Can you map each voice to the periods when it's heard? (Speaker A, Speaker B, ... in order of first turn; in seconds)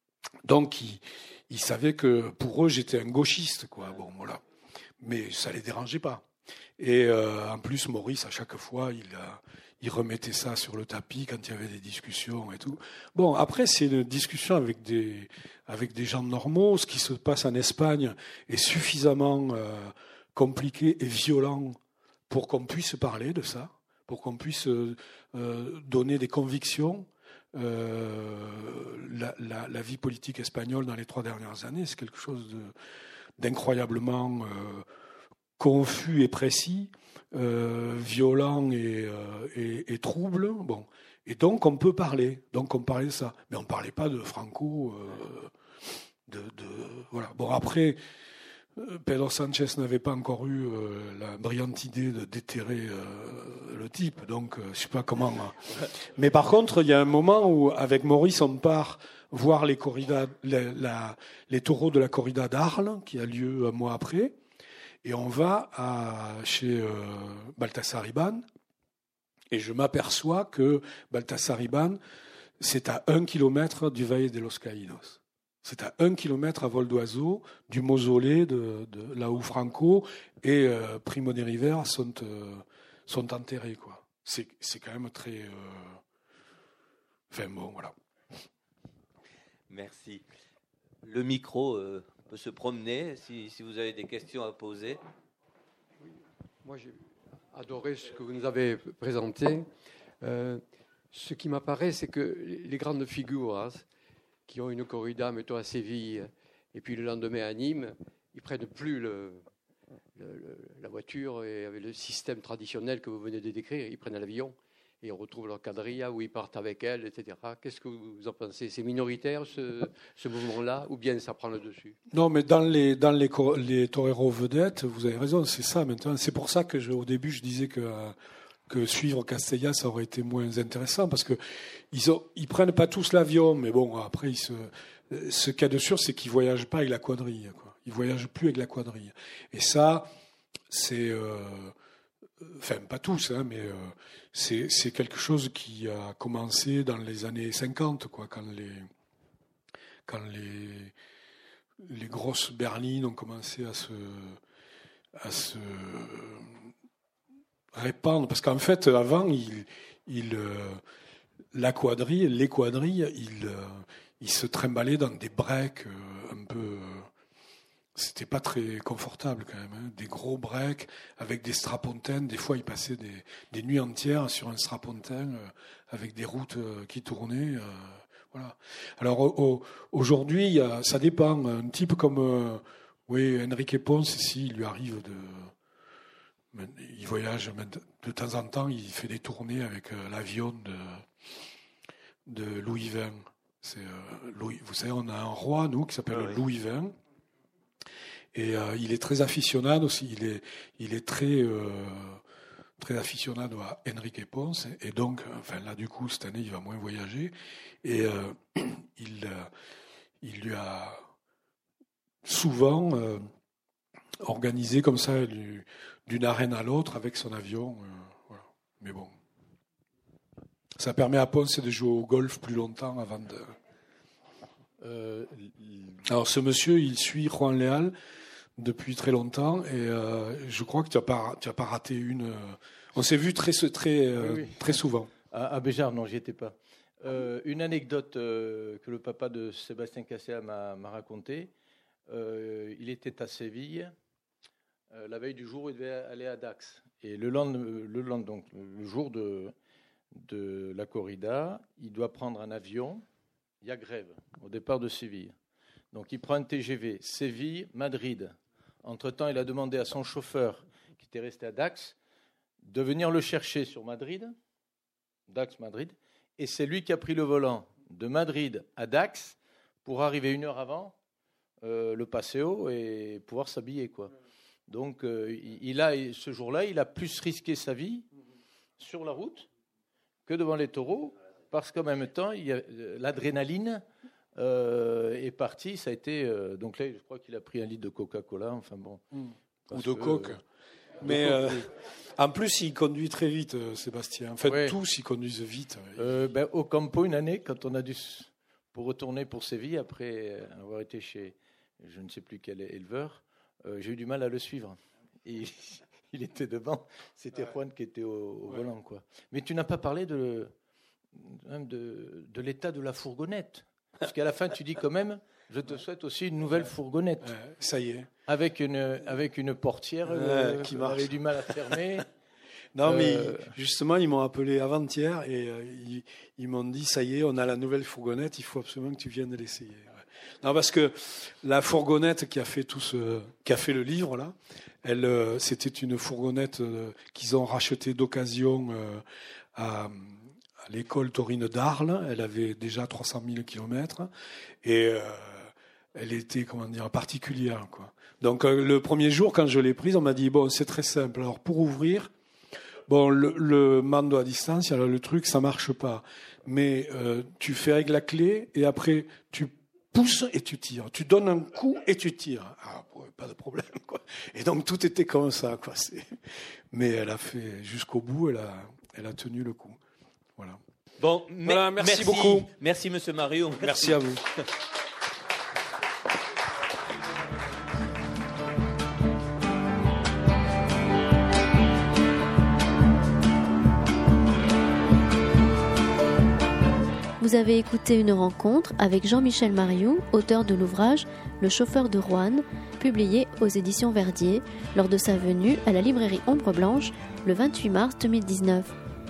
Speaker A: 0.4-4.4, 5.0-6.2, 6.8-32.7, 33.4-34.9, 35.6-45.5, 46.2-48.0, 48.8-64.3, 65.0-68.4, 69.5-72.0, 72.6-86.0, 87.3-87.9, 122.1-128.2, 128.7-140.1, 140.7-141.7, 142.4-148.9, 150.1-150.9, 151.8-154.4, 155.1-156.6, 157.7-160.8, 161.5-167.1, 167.9-185.5, 186.5-191.1, 192.2-196.9, 198.3-202.2, 202.8-209.5, 210.2-211.0, 212.2-213.3, 214.2-219.1, 220.8-223.5, 226.0-227.9, 228.6-235.1, 289.1-290.4, 291.0-296.1, 317.2-318.1, 320.1-321.5, 322.8-339.0, 339.5-344.1, 344.6-352.1, 352.9-366.1, 366.7-369.8, 371.4-372.5, 373.6-374.4
Speaker B: 89.7-90.2, 91.0-95.0, 371.0-374.0
Speaker C: 96.0-99.7, 100.2-103.9, 104.5-109.5, 110.2-122.0
Speaker D: 224.8-226.0, 234.2-241.5, 242.1-243.9, 244.9-249.5, 250.1-253.0, 253.6-255.3, 255.9-261.9, 262.6-264.4, 265.3-270.9, 271.6-274.1, 274.7-278.1, 278.8-279.5, 280.2-283.8, 284.3-289.0, 289.7-290.4, 291.0-291.6, 294.4-294.8, 296.0-310.5, 311.1-317.3, 318.3-322.1, 322.8-323.5
Speaker E: 387.2-398.7